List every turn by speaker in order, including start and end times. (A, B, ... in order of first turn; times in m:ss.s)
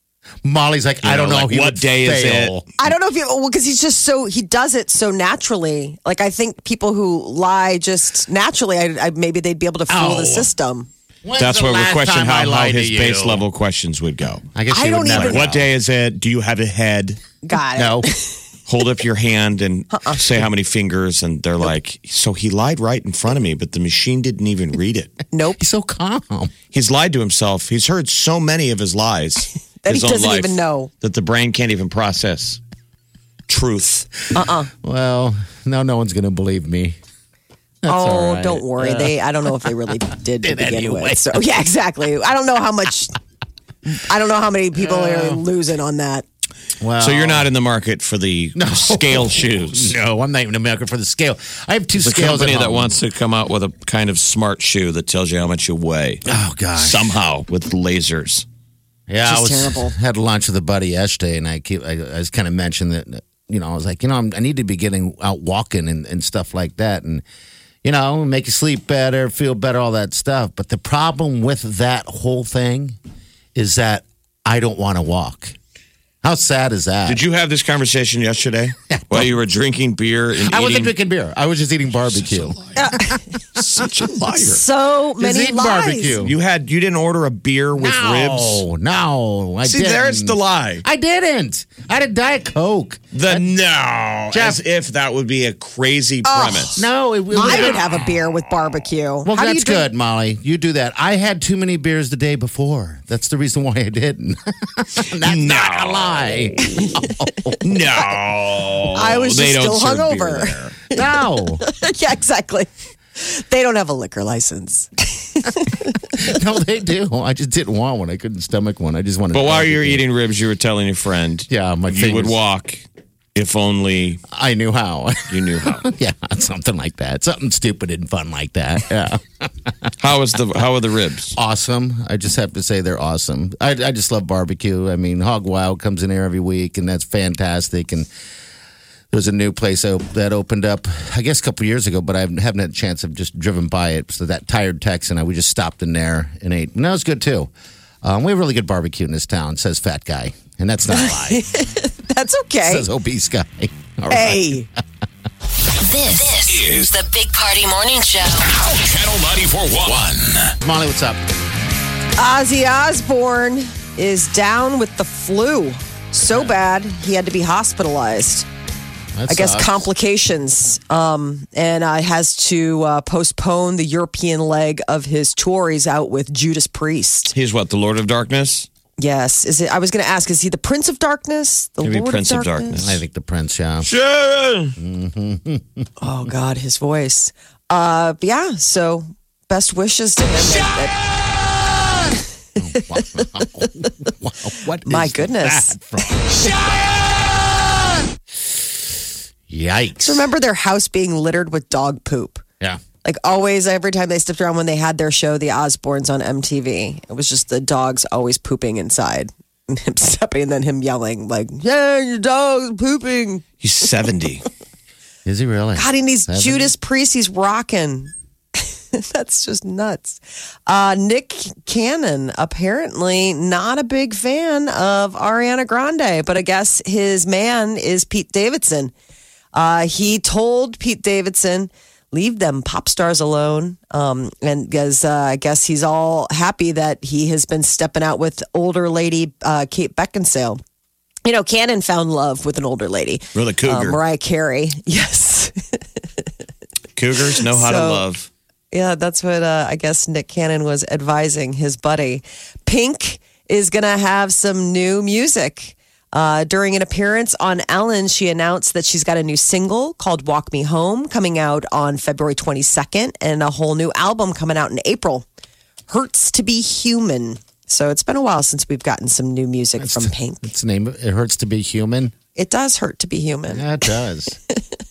0:00.4-0:02.7 A
0:01.0-0:02.6 B
0:02.8-0:10.9 C
0:09.9-0:10.5 A
0:11.2-0:13.4 A
0:11.4-0:14.5 B
0:14.5-0:15.7 A
0:14.7-0:15.5 C
0:15.1-0:17.2 B
0:17.4-0:18.4 C
0:17.8-0:18.1 A
0:18.7-0:25.1 B
0:19.9-0:20.2 C
0:25.3-0:25.6 C
0:25.6-0:26.5 A
0:26.7-0:32.6 B
0:29.8-0:30.9 C
0:33.5-0:34.1 B
0:34.3-0:34.7 C
0:34.8-0:37.0 A
0:37.8-0:39.7 A
0:37.8-0:43.2 C
0:40.4-0:41.4 A
0:43.8-0:46.3 C
0:44.8-0:45.4 A
0:46.8-0:47.5 A
0:47.0-0:50.0 B
0:48.6-0:53.0 A
0:52.0-0:56.2 B
0:56.3-0:57.1 A
0:56.8-0:58.5 B
0:59.1-1:07.2 A
0:59.2-0:59.9 C
1:07.8-1:13.0 A
1:13.6-1:15.6 A
1:16.2-1:17.2 A
1:17.1-1:20.9 B
1:18.9-1:19.3 A
1:20.4-1:22.6 A
1:22.2-1:22.8 B
1:22.8-1:23.3 C
1:23.6-1:24.6 B
1:24.4-1:26.2 C
1:25.2-1:26.4 A
1:26.2-1:28.6 B
1:27.8-1:33.4 A
1:29.6-1:30.8 B
1:33.1-1:36.9 B
1:34.3-1:34.6 A
1:36.2-1:39.9 C
1:36.8-1:38.2 A
1:37.5-1:37.7 B
1:39.2-1:47.6 A
1:45.2-1:46.6 B
1:47.6-1:50.8 B
1:48.9-1:51.0 C
1:50.9-1:51.6 A
1:51.6-1:56.0 C
1:56.1-2:00.0 A
1:59.3-2:02.8 B
2:01.5-2:02.4 A
2:03.4-2:04.2 B
2:04.3-2:09.9 A
2:05.3-2:05.9 B
2:10.0-2:11.4 B
2:11.3-2:18.1 A
2:19.1-2:27.5 A
2:28.0-2:31.5 A
2:30.9-2:32.9 C
2:32.6-2:34.6 A
2:34.1-2:34.7 C
2:35.8-2:38.5 D
2:36.5-2:36.9 E
2:38.6-2:40.6 E
2:40.6-2:41.2 A
2:42.2-2:48.5 C
2:49.2-2:49.8 A
2:49.3-2:57.3 C
2:57.3-2:58.7 B
2:59.0-3:02.8 C
3:01.8-3:03.0 B
3:02.8-3:03.9 A
3:03.8-3:04.8 B
3:04.8-3:05.9 A
3:06.0-3:11.0 C
3:12.6-3:18.0 A
3:12.7-3:13.7 C
3:14.8-3:16.6 C
3:19.5-3:20.2 A
3:20.0-3:22.4 C
3:23.0-3:33.4 C
3:33.6-3:34.4 B
3:35.3-3:36.7 A
3:35.8-3:48.9 C
3:49.5-4:00.6 C
4:01.2-4:05.8 C
4:03.4-4:04.0 B
4:07.0-4:08.3 B
4:07.4-4:08.0 C
4:08.7-4:25.3 C
4:25.9-4:30.5 C
4:29.8-4:32.2 A
4:32.4-4:33.8 C
4:33.5-4:34.4 A